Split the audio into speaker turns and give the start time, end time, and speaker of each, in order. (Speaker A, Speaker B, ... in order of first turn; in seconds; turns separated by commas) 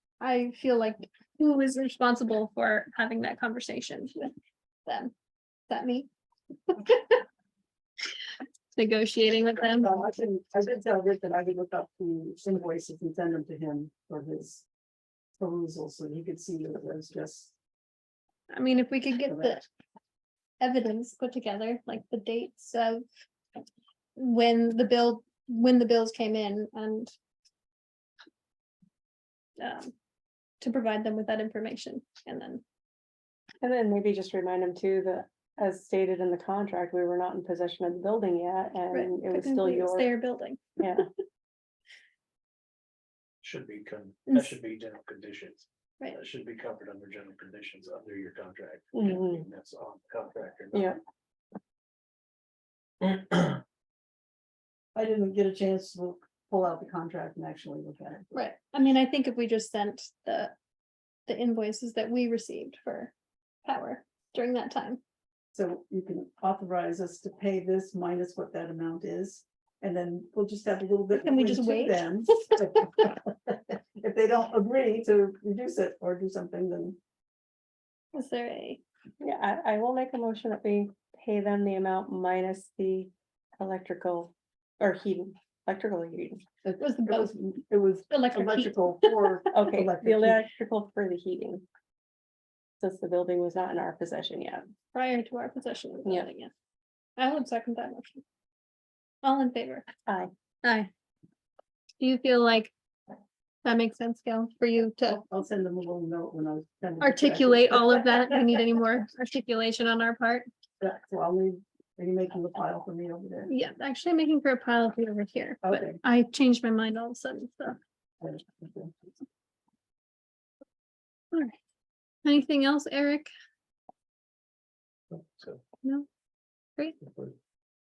Speaker A: 0.2-4.3, Speaker A: 4.8-5.1, Speaker A: 5.7-6.1, Speaker A: 6.7-7.2, Speaker A: 8.8-9.9, Speaker B: 9.8-14.7, Speaker B: 15.4-17.5, Speaker A: 18.5-19.6, Speaker B: 19.3-19.6, Speaker A: 20.6-23.0, Speaker A: 24.2-27.1, Speaker A: 29.6-29.9, Speaker A: 30.6-32.6, Speaker C: 33.6-40.1, Speaker A: 38.9-40.9, Speaker C: 40.8-41.0, Speaker D: 43.4-51.0, Speaker C: 48.9-49.4, Speaker C: 50.7-51.0, Speaker D: 53.0-53.6, Speaker B: 54.9-58.2, Speaker A: 58.3-60.5, Speaker A: 61.3-63.1, Speaker A: 63.6-65.0, Speaker B: 65.5-77.0, Speaker A: 71.2-72.2, Speaker A: 78.1-78.8, Speaker C: 79.2-86.4, Speaker B: 86.6-90.4, Speaker A: 86.8-87.3, Speaker A: 88.1-89.5, Speaker C: 89.5-91.7, Speaker C: 92.8-94.7, Speaker A: 94.9-96.5, Speaker C: 96.0-96.3, Speaker A: 97.2-98.2, Speaker A: 99.2-99.9, Speaker C: 100.1-100.3, Speaker A: 100.6-100.9, Speaker A: 102.0-102.7, Speaker A: 103.6-105.2, Speaker B: 105.1-108.6, Speaker A: 107.0-110.5, Speaker B: 110.8-113.5, Speaker A: 113.5-117.8, Speaker B: 115.6-116.0, Speaker B: 118.2-118.9, Speaker A: 122.2-123.3, Speaker D: 125.1-125.6, Speaker D: 127.0-127.3